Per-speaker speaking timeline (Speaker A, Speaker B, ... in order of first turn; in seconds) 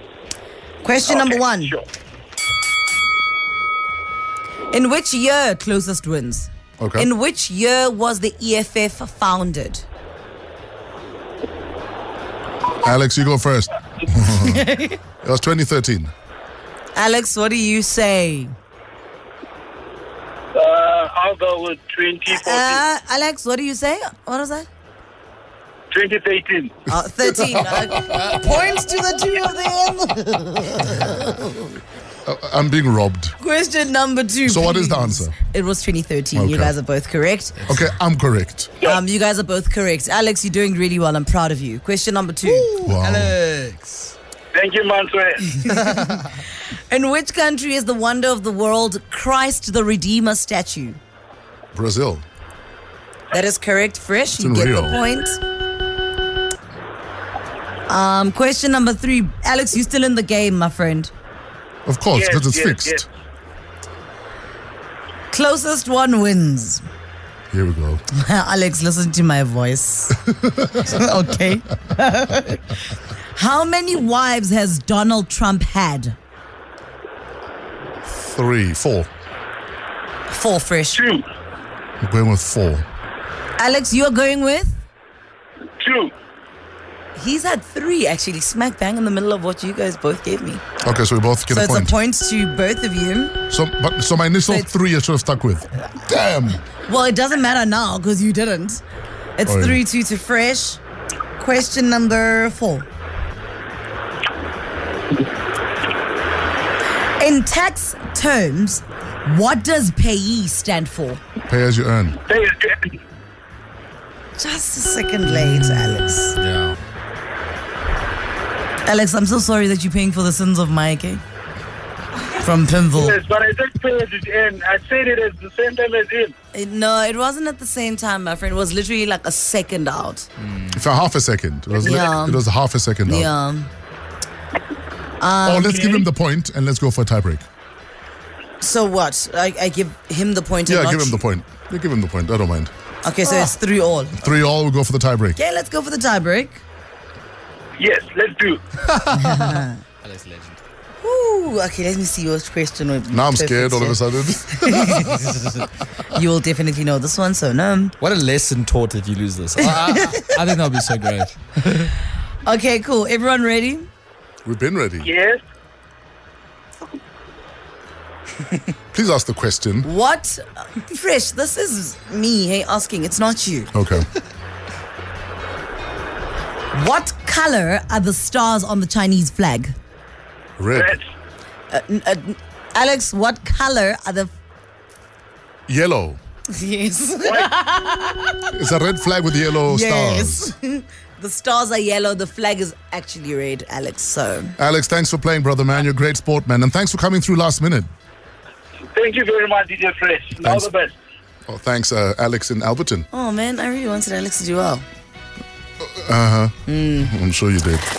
Speaker A: 0.8-1.7, 4.7-9.8, 14.4-14.9, 16.9-18.5, 22.3-24.7, 26.9-31.5, 33.4-37.6, 38.8-42.7, 45.7-46.3, 46.9-51.0, 53.3-55.4, 57.9-61.1, 65.3-66.8, 68.1-70.2, 70.7-72.6, 73.3-76.2, 80.3-81.0, 83.6-84.8, 87.1-90.6, 91.5-93.3, 96.8-98.8, 99.4-100.8, 101.4-102.8, 107.2-111.2, 114.3-116.4, 118.8-121.2, 122.3-123.2, 126.5-130.3, 131.8-132.4, 133.1-133.7, 135.2-136.1, 138.6-141.2, 143.0-144.2, 145.3-146.6, 149.1-149.8, 151.0-155.2, 156.1-157.9, 159.8-160.4, 162.4-163.9, 169.8-173.7, 176.7-179.7, 181.7-184.3, 186.5-188.4, 189.6-194.5, 203.1-204.8, 206.7-207.1
Speaker B: 1.1-1.9, 20.5-22.8, 25.9-26.7, 44.5-45.5, 62.1-63.0, 80.9-81.2, 85.8-86.1, 112.3-112.9, 123.0-126.3, 147.8-148.6, 165.0-165.4, 180.7-181.0, 187.2-187.5, 198.9-200.9
Speaker C: 6.8-7.1, 12.8-16.1, 27.4-27.9, 32.2-33.3, 34.4-35.3, 36.3-36.7, 37.7-38.7, 42.8-43.4, 51.7-52.2, 54.4-55.0, 61.9-63.0, 67.5-68.0, 78.0-79.1, 82.0-82.8, 90.8-91.9, 93.5-96.6, 99.5-99.8, 111.5-112.2, 130.7-133.3, 135.4-137.4, 140.7-142.7, 144.2-145.4, 153.1-155.0, 164.4-165.1, 168.9-169.9, 173.7-174.1, 180.6-181.0, 185.7-186.2, 188.5-190.5, 194.6-197.9, 200.4-200.7, 201.5-203.1, 205.8-207.9
Speaker D: 42.5-44.1, 116.3-116.8, 148.8-150.6, 158.0-161.9